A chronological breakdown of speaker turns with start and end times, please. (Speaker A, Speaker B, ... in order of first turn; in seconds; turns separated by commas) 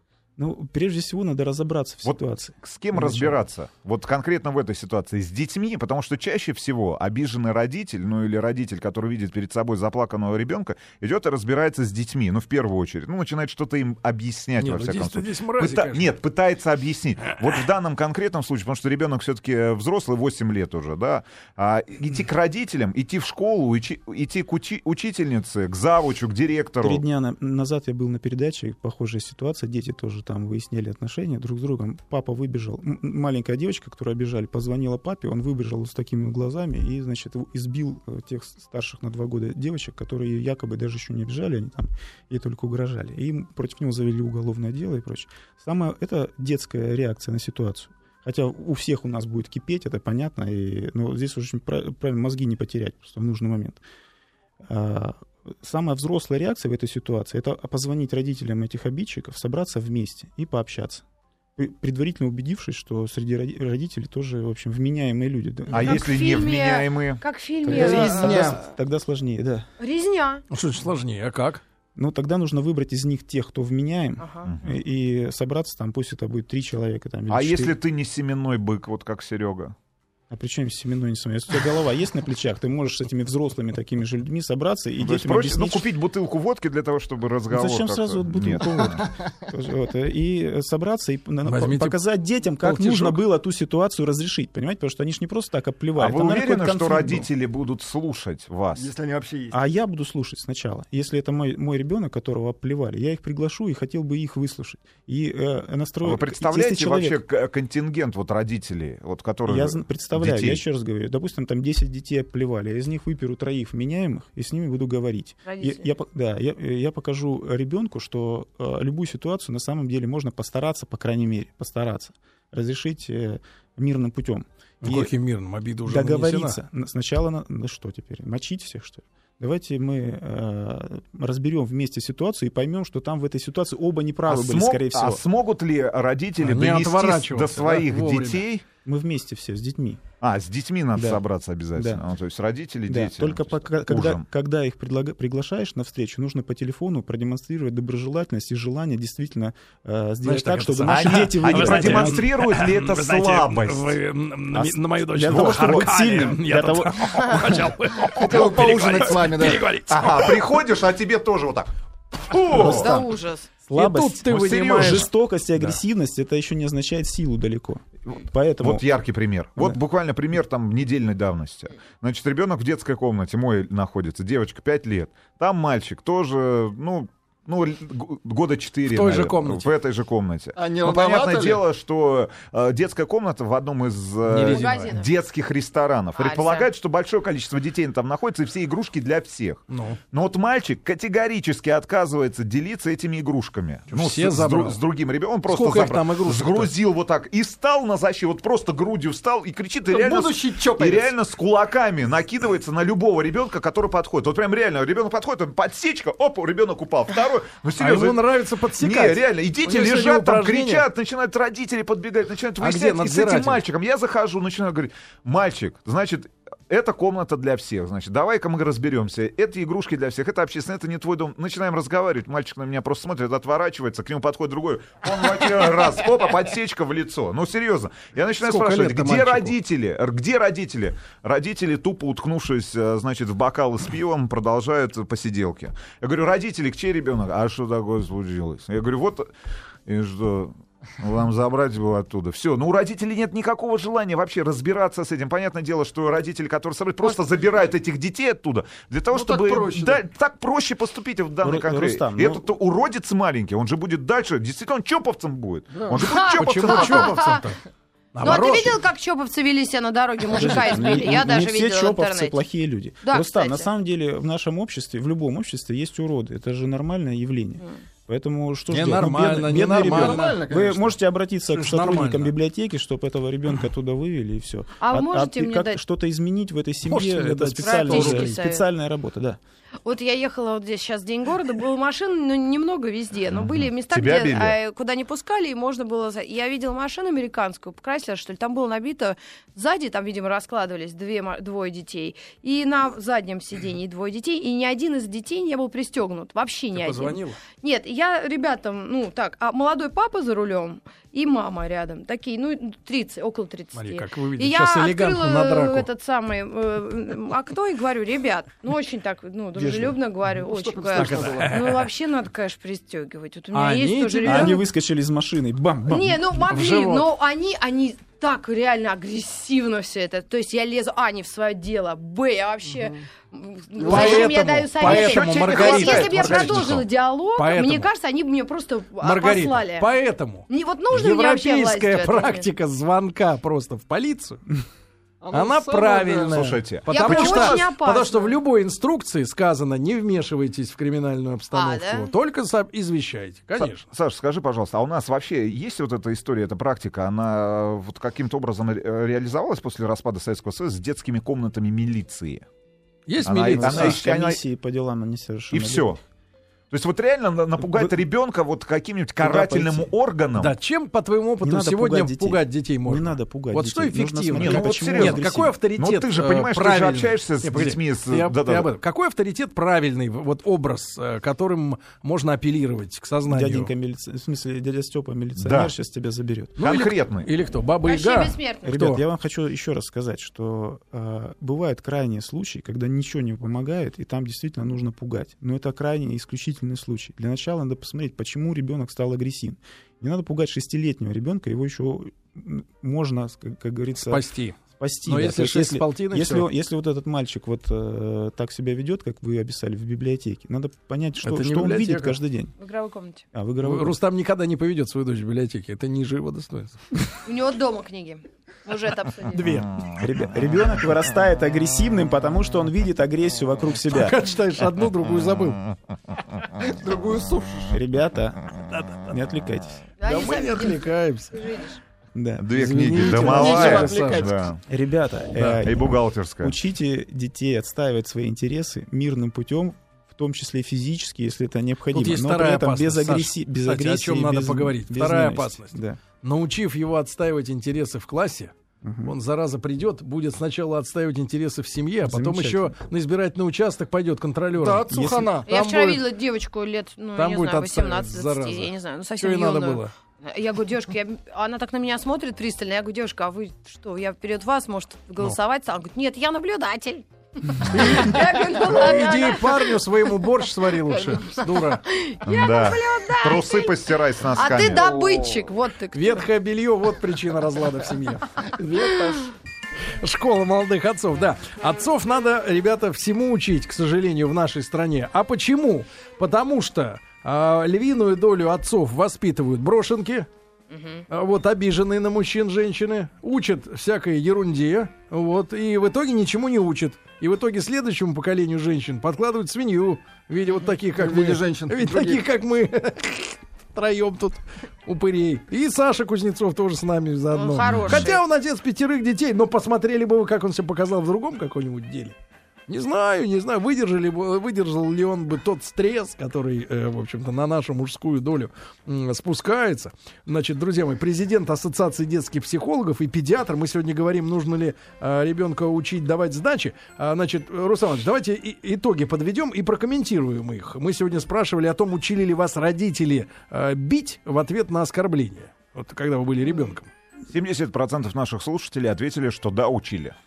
Speaker A: 0.4-3.4, Speaker B: 2.0-27.0, Speaker C: 14.6-16.1, Speaker A: 26.8-53.8, Speaker A: 54.6-61.0, Speaker A: 61.5-66.1, Speaker B: 65.7-67.2, Speaker D: 65.8-68.6, Speaker A: 67.6-69.7, Speaker E: 67.7-68.6, Speaker D: 69.8-70.4, Speaker C: 70.5-71.6, Speaker A: 72.0-77.8, Speaker D: 74.2-74.5, Speaker B: 74.4-74.7, Speaker B: 77.3-79.7, Speaker A: 80.3-85.9, Speaker B: 85.0-89.1, Speaker A: 87.5-97.3, Speaker C: 91.4-92.0, Speaker C: 92.6-93.2, Speaker B: 96.0-98.9, Speaker E: 98.7-99.6, Speaker A: 99.5-107.2, Speaker B: 106.0-110.6, Speaker A: 109.5-125.1, Speaker D: 115.4-115.9, Speaker C: 124.8-126.6, Speaker A: 125.8-135.2, Speaker B: 134.3-138.6, Speaker C: 136.4-138.4, Speaker A: 138.8-140.0, Speaker B: 140.2-144.2, Speaker A: 140.9-141.2, Speaker A: 141.7-142.0, Speaker A: 142.9-152.2, Speaker C: 150.2-160.4, Speaker B: 150.9-154.0, Speaker A: 154.5-157.4, Speaker B: 155.3-155.9, Speaker E: 158.1-159.7, Speaker B: 158.5-159.1, Speaker B: 159.9-162.9, Speaker A: 162.5-163.1, Speaker D: 162.6-163.5, Speaker A: 163.7-168.9, Speaker C: 163.7-165.1, Speaker B: 164.3-165.0, Speaker B: 168.6-208.2, Speaker C: 178.9-179.7, Speaker E: 180.6-181.7, Speaker C: 184.2-184.9, Speaker D: 184.5-185.1, Speaker D: 186.2-186.7, Speaker C: 189.7-190.0, Speaker C: 193.9-194.8, Speaker C: 195.5-196.7, Speaker E: 199.8-201.2, Speaker C: 207.8-210.8, Speaker B: 208.8-239.3, Speaker C: 212.6-213.6, Speaker C: 228.4-229.5, Speaker B: 239.8-257.2, Speaker E: 249.1-250.0, Speaker A: 251.4-252.4, Speaker D: 255.9-257.5, Speaker C: 256.3-257.6, Speaker C: 258.1-258.8, Speaker D: 258.2-262.4, Speaker A: 260.3-279.4, Speaker D: 263.0-263.7, Speaker C: 268.7-270.4, Speaker E: 269.5-271.0, Speaker C: 271.5-272.3, Speaker D: 274.8-275.8, Speaker C: 276.8-278.4, Speaker D: 277.6-278.6, Speaker D: 279.8-314.6, Speaker B: 283.3-284.6, Speaker C: 296.7-297.4, Speaker C: 303.7-305.9, Speaker A: 309.5-310.0, Speaker E: 310.4-311.7, Speaker C: 310.9-311.9, Speaker C: 313.5-314.6, Speaker A: 314.2-316.4, Speaker D: 315.9-329.9, Speaker C: 316.5-317.1, Speaker E: 322.7-323.0, Speaker C: 323.8-326.8, Speaker B: 323.9-326.9, Speaker C: 327.4-327.9, Speaker C: 329.0-334.4, Speaker D: 330.5-332.4, Speaker E: 335.2-336.6, Speaker C: 335.3-343.9, Speaker B: 336.3-337.6, Speaker D: 336.9-338.4, Speaker D: 341.5-342.1, Speaker B: 343.6-352.4, Speaker C: 353.1-354.0, Speaker B: 353.2-354.4, Speaker A: 353.3-356.0, Speaker B: 355.5-356.0, Speaker B: 356.7-360.5, Speaker A: 357.6-357.9, Speaker A: 359.2-359.9, Speaker C: 360.4-373.7, Speaker A: 361.4-365.5, Speaker B: 364.4-368.7, Speaker A: 373.3-376.6, Speaker B: 375.4-375.7, Speaker C: 376.6-379.0, Speaker B: 376.6-377.3, Speaker D: 377.8-378.7, Speaker A: 378.6-402.5, Speaker C: 394.0-396.5, Speaker C: 401.2-402.2, Speaker D: 402.6-403.2, Speaker A: 403.3-404.0, Speaker C: 403.6-406.8, Speaker D: 407.2-409.6, Speaker C: 409.3-409.7, Speaker A: 410.0-414.2, Speaker C: 413.9-415.6, Speaker E: 416.6-417.7, Speaker A: 417.7-418.5, Speaker C: 418.7-419.1, Speaker A: 419.0-419.8, Speaker D: 420.0-421.8, Speaker C: 420.0-421.4, Speaker A: 422.1-422.6, Speaker B: 422.4-424.6, Speaker C: 422.5-424.3, Speaker E: 422.7-424.6, Speaker A: 424.7-436.0, Speaker C: 425.4-425.6, Speaker B: 425.6-426.5, Speaker C: 431.9-438.5, Speaker A: 438.8-439.1, Speaker C: 439.0-445.3, Speaker A: 442.0-442.8, Speaker E: 444.5-446.1, Speaker A: 444.9-445.2, Speaker D: 445.5-463.8, Speaker C: 447.1-449.9, Speaker C: 457.7-461.8, Speaker B: 462.2-464.8, Speaker D: 464.3-466.2, Speaker E: 464.7-465.5, Speaker C: 465.9-468.3, Speaker E: 468.5-469.3, Speaker C: 470.0-480.3, Speaker D: 480.7-481.0, Speaker C: 481.1-502.1, Speaker E: 490.9-492.3, Speaker D: 497.3-498.2, Speaker C: 502.7-526.9, Speaker B: 527.3-530.1